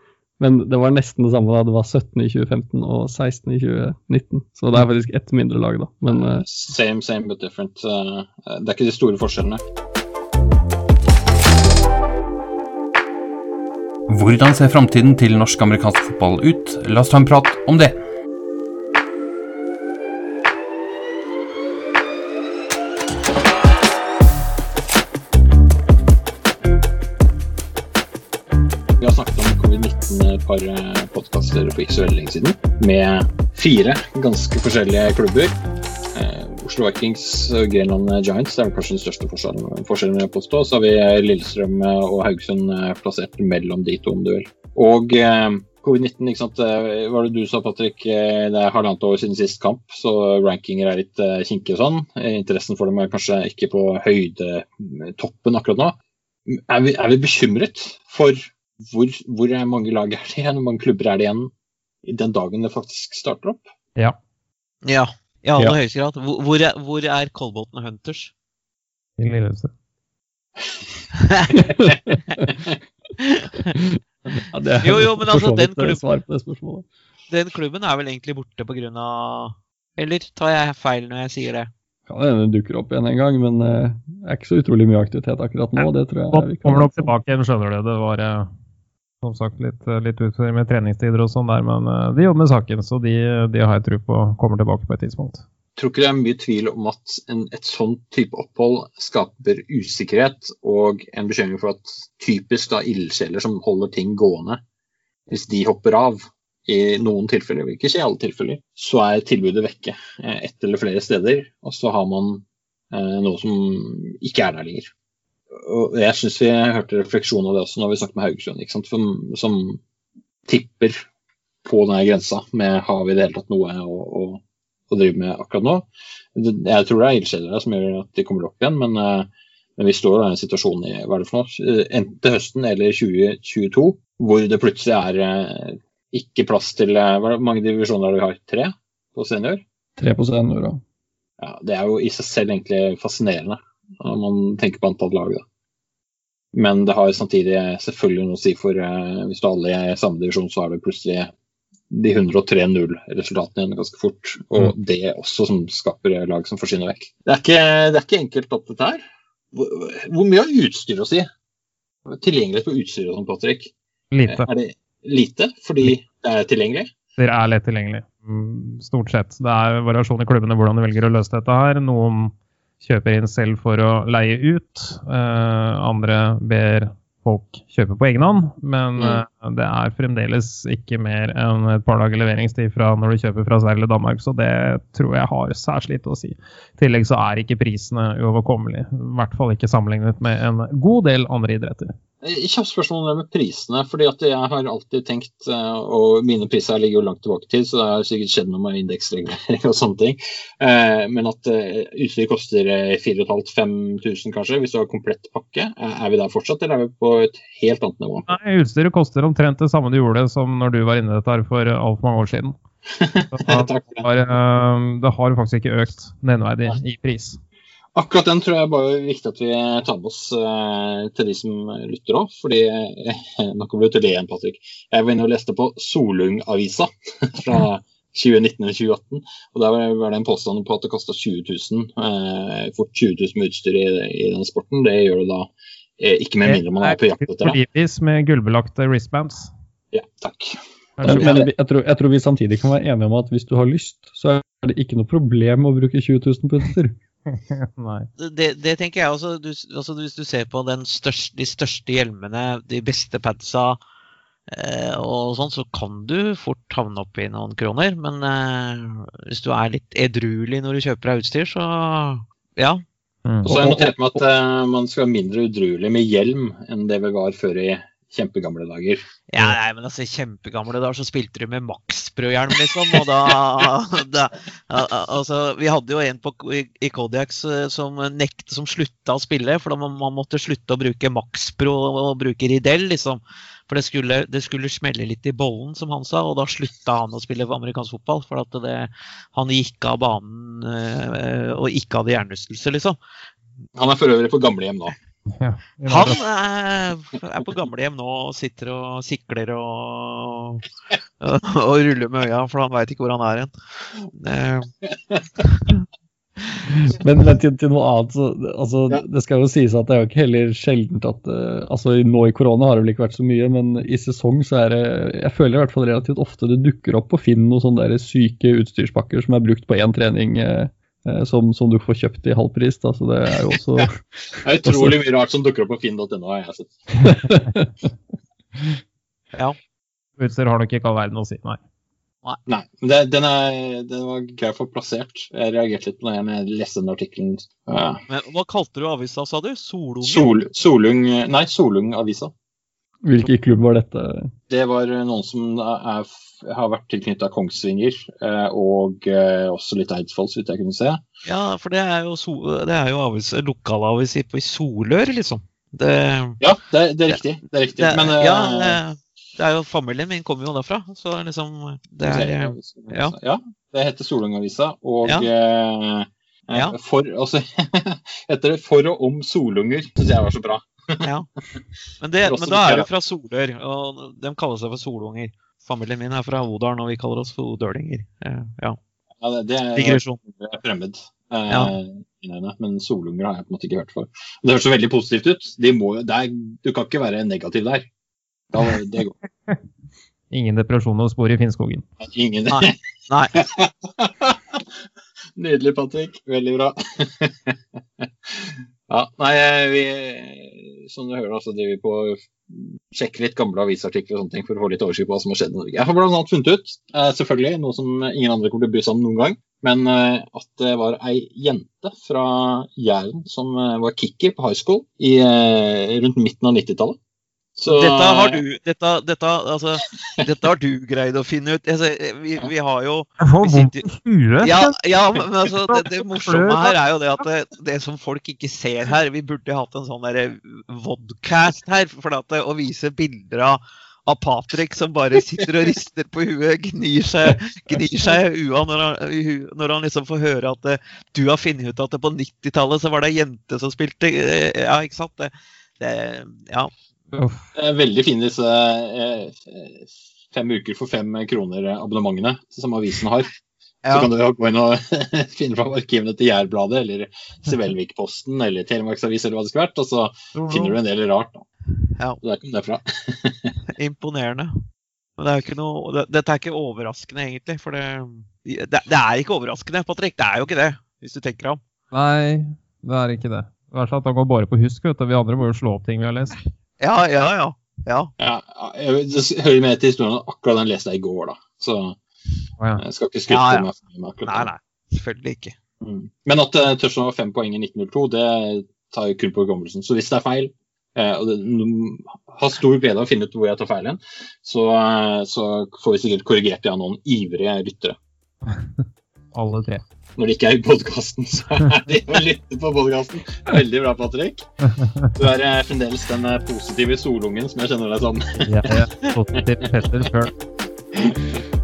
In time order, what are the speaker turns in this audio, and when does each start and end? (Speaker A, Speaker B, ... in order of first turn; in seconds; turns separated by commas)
Speaker A: 0.4-6.5, Speaker B: 6.1-9.6, Speaker C: 14.1-18.0, Speaker B: 29.0-35.6, Speaker B: 36.1-56.0, Speaker B: 56.5-61.5, Speaker B: 62.0-63.6, Speaker D: 64.8-68.3, Speaker E: 69.2-69.7, Speaker D: 71.1-71.6, Speaker A: 71.5-72.4, Speaker D: 73.2-73.7, Speaker A: 73.8-76.9, Speaker D: 74.8-76.0, Speaker D: 77.3-81.7, Speaker A: 82.1-87.1, Speaker E: 86.3-88.5, Speaker E: 89.2-95.4, Speaker B: 95.8-104.6, Speaker B: 105.3-114.9, Speaker B: 115.5-119.8, Speaker B: 120.5-121.0, Speaker B: 121.6-139.6, Speaker A: 140.0-140.8, Speaker B: 141.4-145.4, Speaker B: 146.5-151.3, Speaker B: 151.9-159.0, Speaker B: 159.5-161.3, Speaker B: 162.1-163.7, Speaker E: 164.1-164.5, Speaker B: 164.3-166.9, Speaker E: 167.2-191.9, Speaker B: 179.0-179.2, Speaker B: 192.2-208.3, Speaker E: 208.3-212.6, Speaker B: 212.9-214.1, Speaker E: 213.3-217.4, Speaker B: 217.9-237.6, Speaker E: 236.4-239.5, Speaker B: 239.9-241.5, Speaker E: 241.0-241.4, Speaker A: 241.0-246.9, Speaker E: 247.3-248.1, Speaker D: 248.2-253.8, Speaker D: 254.5-262.8, Speaker E: 263.2-263.5, Speaker A: 263.4-264.2, Speaker B: 263.5-269.0, Speaker D: 269.3-293.0, Speaker B: 293.8-294.9, Speaker E: 295.4-296.2, Speaker D: 295.9-300.6, Speaker D: 301.2-303.5, Speaker D: 304.1-304.7, Speaker D: 305.5-305.8, Speaker A: 306.9-323.9, Speaker B: 323.8-327.4, Speaker A: 324.6-325.0, Speaker A: 327.1-327.7, Speaker E: 330.2-331.6, Speaker B: 332.4-338.0, Speaker D: 338.1-340.3, Speaker B: 340.0-342.3, Speaker A: 343.0-344.3, Speaker B: 344.5-351.0, Speaker D: 351.2-356.4, Speaker B: 356.4-358.8, Speaker D: 357.8-363.1, Speaker B: 362.1-371.1, Speaker D: 371.0-371.3, Speaker D: 372.0-378.8, Speaker B: 372.2-372.9, Speaker B: 379.2-387.9, Speaker D: 379.7-380.2, Speaker D: 381.5-381.7, Speaker B: 388.5-389.1, Speaker E: 390.3-391.9, Speaker B: 392.0-392.7, Speaker D: 392.5-393.3, Speaker B: 393.3-394.6, Speaker B: 395.4-417.0, Speaker B: 417.6-418.4, Speaker D: 417.7-423.9, Speaker E: 423.2-424.7, Speaker D: 424.4-446.7, Speaker E: 425.7-426.7, Speaker E: 447.1-447.4, Speaker B: 447.5-453.3, Speaker D: 453.8-454.1, Speaker B: 453.9-461.4, Speaker E: 460.3-460.8, Speaker B: 462.2-463.5, Speaker D: 463.8-464.5, Speaker D: 465.2-471.6, Speaker E: 471.9-476.4, Speaker D: 476.8-478.1, Speaker B: 478.2-482.0, Speaker B: 482.8-484.5, Speaker D: 483.3-483.7, Speaker D: 484.2-485.6, Speaker B: 485.8-497.9, Speaker E: 499.3-499.8, Speaker B: 500.2-504.4, Speaker B: 505.1-508.8, Speaker E: 508.5-510.3, Speaker B: 510.9-511.4